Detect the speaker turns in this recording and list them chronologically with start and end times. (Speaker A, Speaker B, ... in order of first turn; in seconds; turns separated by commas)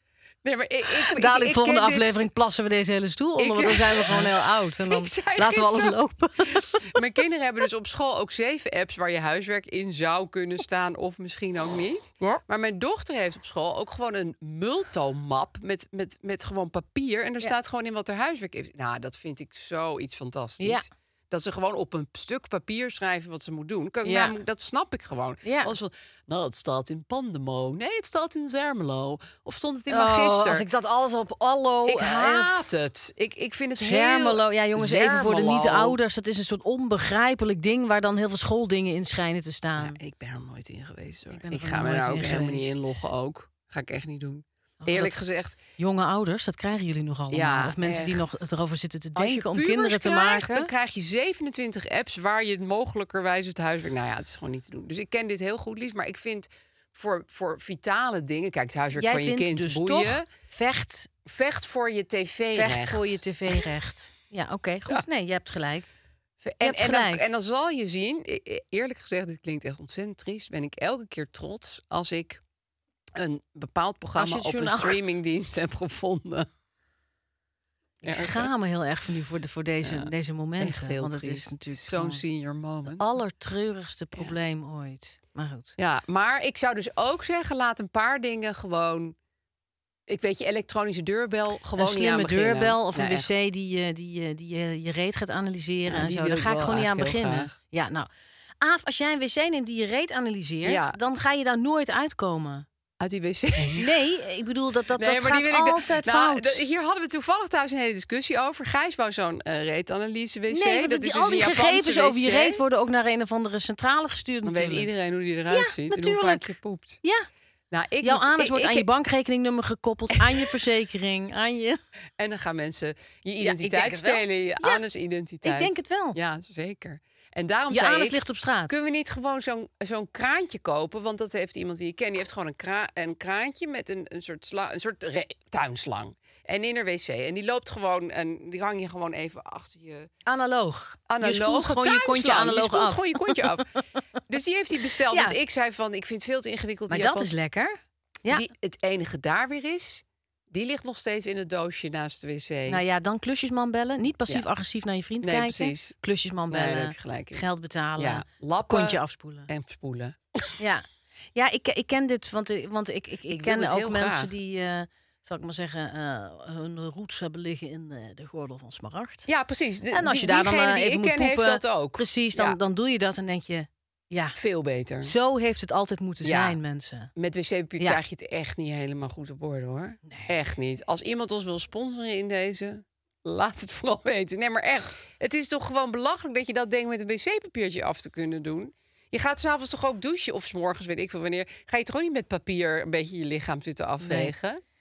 Speaker A: 0.4-2.3, Speaker B: 1.0-7.0, Speaker A: 3.4-30.6, Speaker B: 20.6-20.9, Speaker B: 24.0-24.3, Speaker B: 25.4-25.7, Speaker B: 29.9-32.7, Speaker A: 31.9-36.0, Speaker B: 33.8-40.0, Speaker A: 39.8-45.6, Speaker B: 41.3-43.1, Speaker B: 44.8-45.2, Speaker B: 45.8-50.7, Speaker A: 47.3-48.4, Speaker A: 49.1-60.3, Speaker B: 58.9-61.1, Speaker A: 61.2-63.6, Speaker B: 62.5-65.9, Speaker A: 66.4-72.4, Speaker B: 66.6-67.2, Speaker A: 73.1-76.5, Speaker B: 74.1-75.0, Speaker A: 78.0-78.5, Speaker B: 78.0-82.2, Speaker A: 79.8-83.1, Speaker B: 82.9-85.8, Speaker A: 85.8-89.2, Speaker A: 90.1-93.3, Speaker B: 91.8-98.1, Speaker A: 95.8-97.5, Speaker B: 98.6-102.7, Speaker A: 100.6-101.0, Speaker A: 103.0-103.9, Speaker B: 103.8-106.6, Speaker A: 104.9-112.6, Speaker B: 110.5-114.9, Speaker A: 114.4-117.0, Speaker B: 115.5-117.2, Speaker A: 117.7-118.9, Speaker B: 118.0-121.8, Speaker A: 120.1-120.5, Speaker A: 122.2-140.1, Speaker B: 123.4-124.8, Speaker B: 125.4-126.2, Speaker B: 127.7-128.7, Speaker B: 140.2-143.8, Speaker A: 141.1-143.7, Speaker A: 144.3-147.3, Speaker B: 145.1-145.3, Speaker B: 146.9-148.5, Speaker A: 148.3-152.8, Speaker B: 152.7-159.5, Speaker A: 155.2-155.9, Speaker A: 156.5-157.4, Speaker A: 158.0-160.5, Speaker B: 160.6-169.3, Speaker A: 163.3-164.3, Speaker A: 169.3-172.6, Speaker B: 169.9-174.4, Speaker A: 174.4-175.1, Speaker B: 175.0-177.1, Speaker A: 176.2-176.6, Speaker A: 177.1-194.6, Speaker B: 180.1-180.3, Speaker B: 194.0-194.3